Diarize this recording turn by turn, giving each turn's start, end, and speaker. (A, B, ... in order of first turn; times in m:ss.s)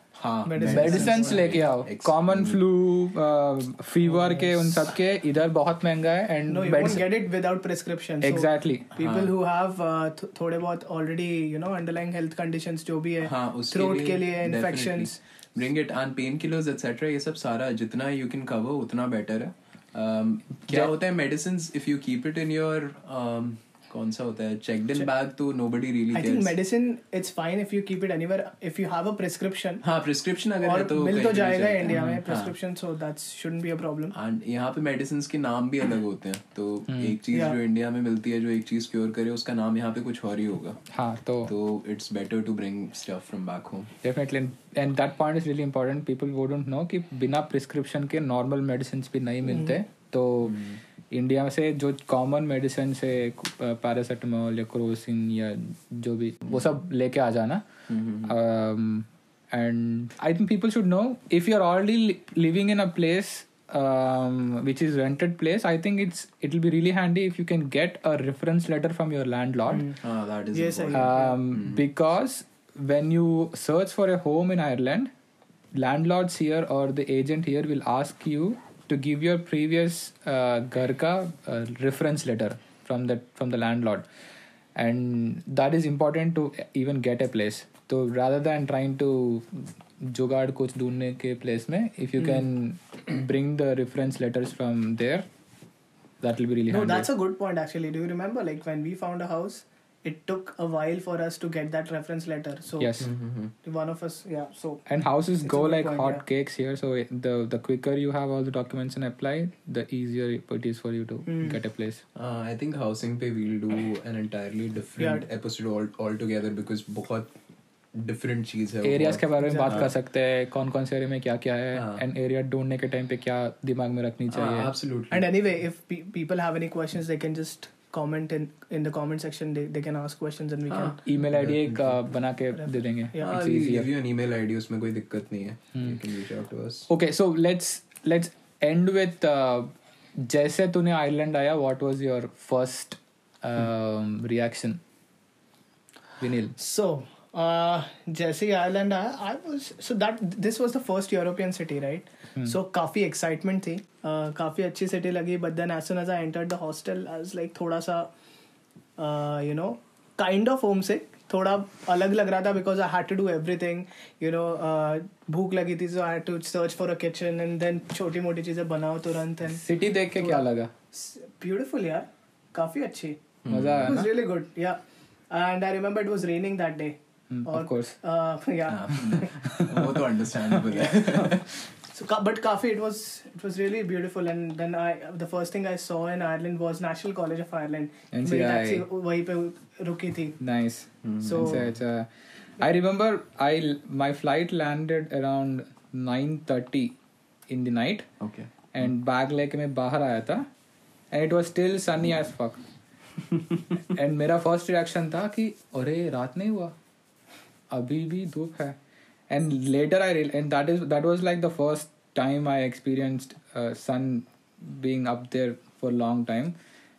0:00.2-0:02.6 A
0:00.5-0:01.6 B
0:00.6-0:07.0 C
0:04.2-0:04.5 B
0:06.5-0:15.2 B
0:08.2-0:08.9 C
0:09.0-0:09.3 A
0:13.2-0:26.5 A
0:26.1-0:29.8 B
0:29.8-0:32.5 A
0:30.6-0:34.2 B
0:31.9-0:32.2 C
0:34.1-0:40.8 A
0:36.9-0:37.2 C
0:37.3-0:37.6 B
0:40.9-0:41.5 C
0:41.5-0:43.9 A
0:44.0-0:57.6 C
0:50.4-0:50.8 A
0:57.9-0:58.3 A
0:58.2-1:09.9 C
1:09.7-1:10.0 B
1:10.0-1:11.8 A
1:10.5-1:11.4 B
1:10.9-1:15.1 C
1:15.8-1:24.1 C
1:24.8-1:35.3 C
1:36.2-1:37.1 C
1:36.7-1:43.0 B
1:42.8-1:43.1 C
1:43.0-1:43.5 A
1:43.6-1:44.8 B
1:44.9-1:52.0 C
1:45.4-1:46.2 B
1:51.3-1:51.6 B
1:52.2-1:57.3 A
1:55.0-1:55.2 B
1:58.0-1:59.9 A
1:58.8-2:04.7 C
1:59.4-1:59.9 B
2:01.8-2:02.0 A
2:04.3-2:05.3 A
2:05.1-2:11.0 B
2:10.7-2:11.9 A
2:11.1-2:13.9 C
2:12.6-2:13.3 B
2:13.2-2:16.9 A
2:16.9-2:24.8 C
2:26.2-2:26.6 C
2:26.6-2:38.1 B
2:39.0-2:53.2 B
2:49.5-2:50.7 C
2:53.4-2:54.1 A
2:53.5-2:54.1 C
2:53.8-2:54.8 B
2:55.3-2:59.4 B
2:57.3-2:58.0 C
2:58.7-3:01.5 A
2:59.4-3:00.0 C
3:01.9-3:10.4 B
3:08.1-3:08.8 C
3:10.4-3:17.0 C
3:11.0-3:11.7 A
3:11.2-3:11.6 B
3:17.5-3:18.1 C
3:18.2-3:18.5 A
3:18.7-3:20.5 C
3:21.1-3:22.6 C
3:23.8-3:26.8 C
3:27.7-3:28.8 C
3:29.3-3:36.5 C